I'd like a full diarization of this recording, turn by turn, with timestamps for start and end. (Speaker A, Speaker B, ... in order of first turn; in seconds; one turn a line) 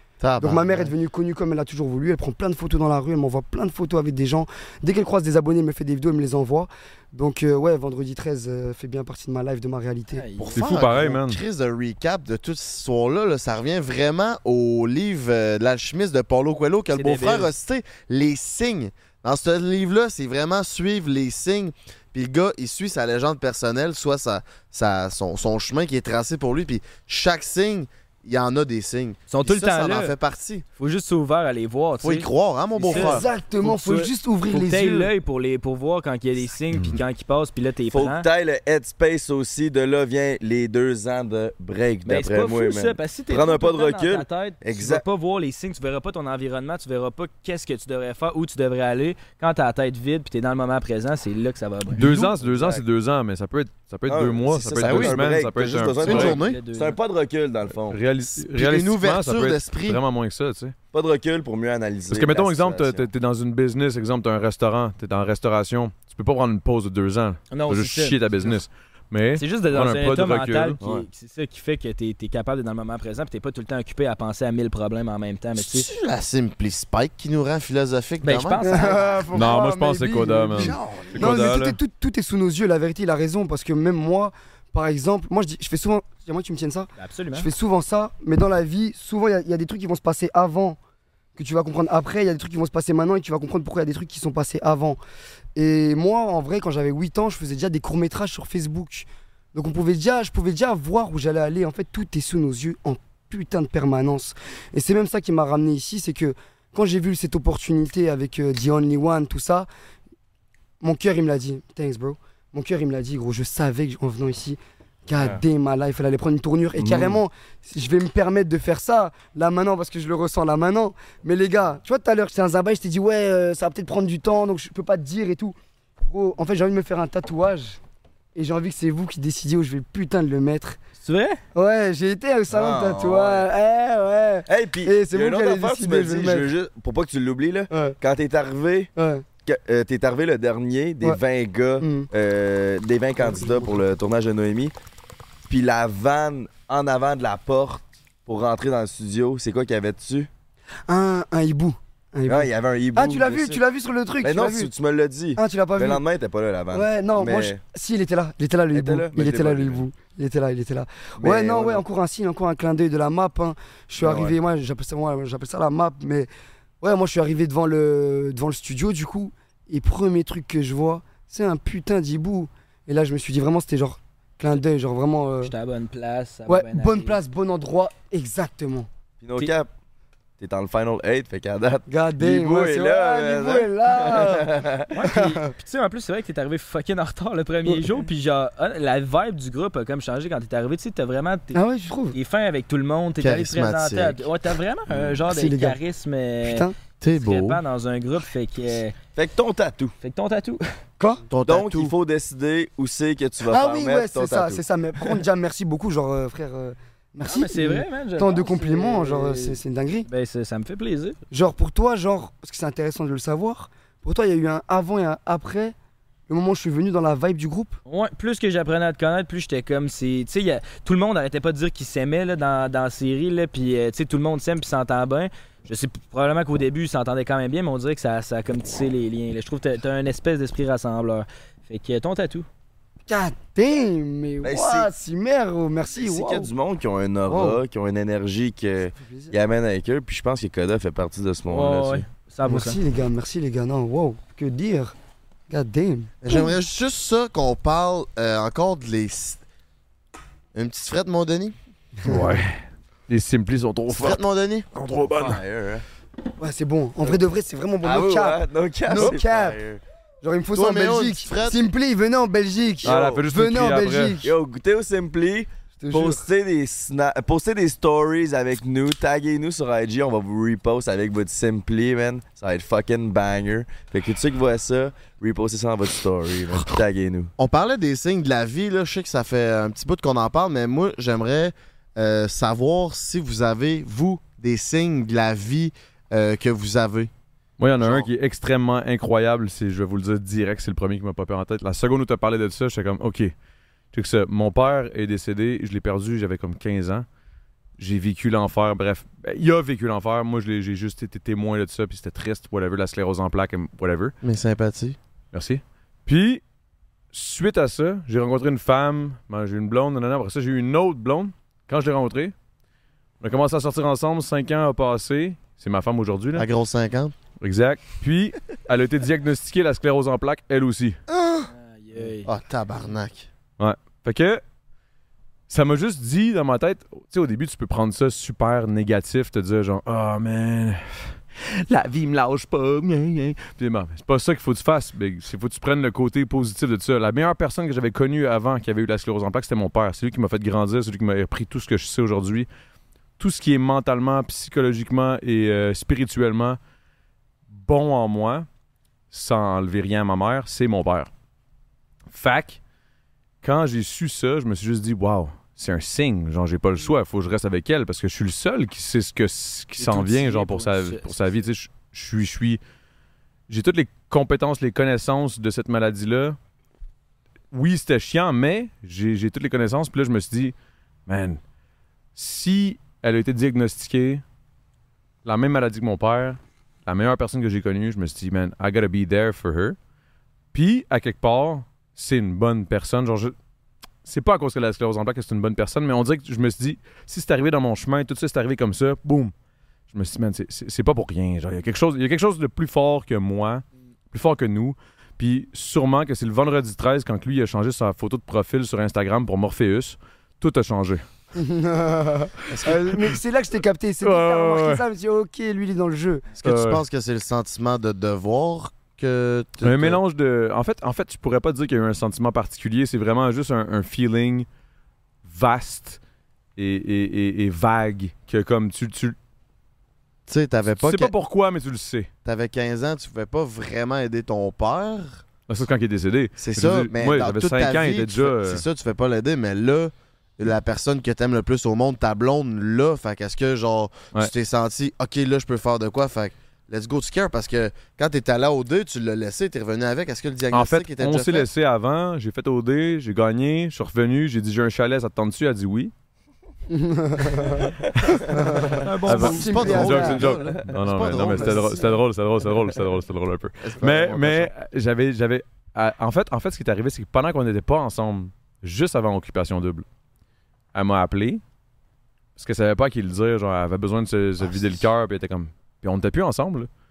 Speaker A: 0.2-0.9
Speaker B: 0.4-10.2
Speaker C: 10.1-10.6
Speaker A: 10.4-30.6
Speaker D: 10.6-11.4
Speaker C: 16.9-17.5
Speaker C: 29.3-30.1
Speaker C: 30.8-38.2
Speaker A: 32.0-33.3
Speaker B: 32.9-35.1
Speaker E: 37.9-45.0
Speaker C: 42.0-52.0
Speaker D: 51.9-56.4
Speaker E: 52.0-52.8
Speaker E: 54.1-58.0
Speaker A: 54.8-55.2
Speaker C: 56.0-57.0
Speaker A: 56.0-56.6
Speaker D: 57.9-60.7
Speaker A: 58.4-60.0
Speaker E: 60.9-63.1
Speaker D: 62.1-70.8
Speaker C: 67.5-68.6
Speaker C: 69.3-75.9
Speaker A: 75.5-78.9
Speaker C: 78.2-79.3
Speaker B: 78.6-90.8
Speaker D: 79.3-81.8
Speaker C: 87.0-87.5
Speaker B: 91.3-95.0
Speaker B: 95.5-109.7
Speaker B: 110.8-127.8
Speaker E: 115.1-115.4
Speaker E: 116.8-117.2
Speaker B: 128.3-130.8
Speaker C: 131.0-131.4
Speaker B: 131.5-136.5
Speaker E: 132.5-133.5
Speaker E: 134.5-138.9
Speaker B: 137.7-137.9
Speaker B: 139.0-139.2
Speaker E: 139.4-144.7
Speaker B: 141.8-142.1
Speaker B: 143.2-143.8
Speaker E: 145.5-150.3
Speaker B: 150.9-154.7
Speaker E: 152.2-153.6
Speaker E: 154.2-157.6
Speaker B: 155.4-156.0
Speaker B: 156.7-166.3
Speaker E: 158.7-159.8
Speaker E: 161.2-161.8
Speaker E: 164.0-164.4
Speaker B: 166.8-175.5
Speaker C: 175.4-177.2
Speaker B: 176.5-178.9
Speaker E: 179.2-179.7
Speaker E: 180.4-184.9
Speaker B: 181.9-185.4
Speaker C: 184.9-191.6
Speaker B: 191.5-192.2
Speaker C: 192.1-198.9
Speaker A: 193.2-194.3
Speaker B: 195.3-195.8
Speaker B: 196.4-196.7
Speaker A: 197.0-197.6
Speaker E: 199.1-199.9
Speaker C: 200.0-200.6
Speaker B: 201.0-201.2
Speaker A: 201.3-201.9
Speaker E: 201.4-205.2
Speaker B: 203.5-210.1
Speaker C: 207.2-211.2
Speaker B: 211.3-215.7
Speaker B: 216.3-217.8
Speaker C: 217.9-232.5
Speaker B: 233.1-236.5
Speaker E: 234.4-234.9
Speaker E: 235.9-242.1
Speaker B: 237.3-237.6
Speaker B: 238.9-239.3
Speaker C: 241.5-242.8
Speaker B: 242.4-244.9
Speaker B: 245.5-246.5
Speaker A: 246.2-249.4
Speaker A: 250.5-251.6
Speaker B: 252.0-252.4
Speaker D: 252.0-254.2
Speaker A: 253.9-254.7
Speaker D: 254.7-255.4
Speaker E: 255.0-255.8
Speaker B: 256.4-259.6
Speaker E: 257.8-259.8
Speaker B: 260.2-264.3
Speaker A: 260.5-261.7
Speaker E: 262.8-263.2
Speaker D: 262.8-264.2
Speaker E: 264.2-277.3
Speaker B: 265.8-266.2
Speaker A: 277.4-287.1
Speaker D: 287.6-293.3
Speaker A: 287.8-288.1
Speaker D: 293.9-297.1
Speaker D: 297.8-304.1
Speaker A: 304.2-305.0
Speaker D: 305.3-306.4
Speaker D: 307.1-312.3
Speaker D: 313.2-316.5
Speaker A: 316.3-317.1
Speaker D: 317.4-321.0
Speaker A: 321.1-321.5
Speaker C: 321.5-322.3
Speaker A: 322.2-323.3
Speaker D: 323.6-324.4
Speaker D: 325.5-342.5
Speaker D: 343.2-346.6
Speaker D: 347.5-348.4
Speaker D: 349.1-351.1
Speaker D: 352.1-352.6
Speaker D: 353.4-362.6
Speaker C: 359.8-361.2
Speaker D: 363.5-366.4
Speaker D: 367.5-370.5
Speaker D: 371.1-371.4
Speaker D: 372.1-374.2
Speaker D: 375.2-379.8
Speaker D: 380.5-383.3
Speaker D: 384.0-389.3
Speaker D: 389.9-401.0
Speaker B: 401.3-406.4
Speaker A: 402.5-402.9
Speaker D: 404.0-404.8
Speaker A: 406.4-410.0
Speaker D: 406.4-406.8
Speaker D: 409.6-414.5
Speaker D: 415.2-416.0
Speaker D: 416.6-419.1
Speaker A: 420.3-421.1
Speaker D: 420.7-422.1
Speaker A: 422.2-425.2
Speaker D: 425.5-428.6
Speaker A: 426.4-441.5
Speaker D: 440.5-445.9
Speaker B: 446.7-447.7
Speaker B: 448.3-450.4
Speaker D: 448.8-459.8
Speaker C: 448.9-449.4
Speaker A: 449.0-451.9
Speaker A: 453.6-454.5
Speaker D: 460.7-461.4
Speaker D: 462.4-466.7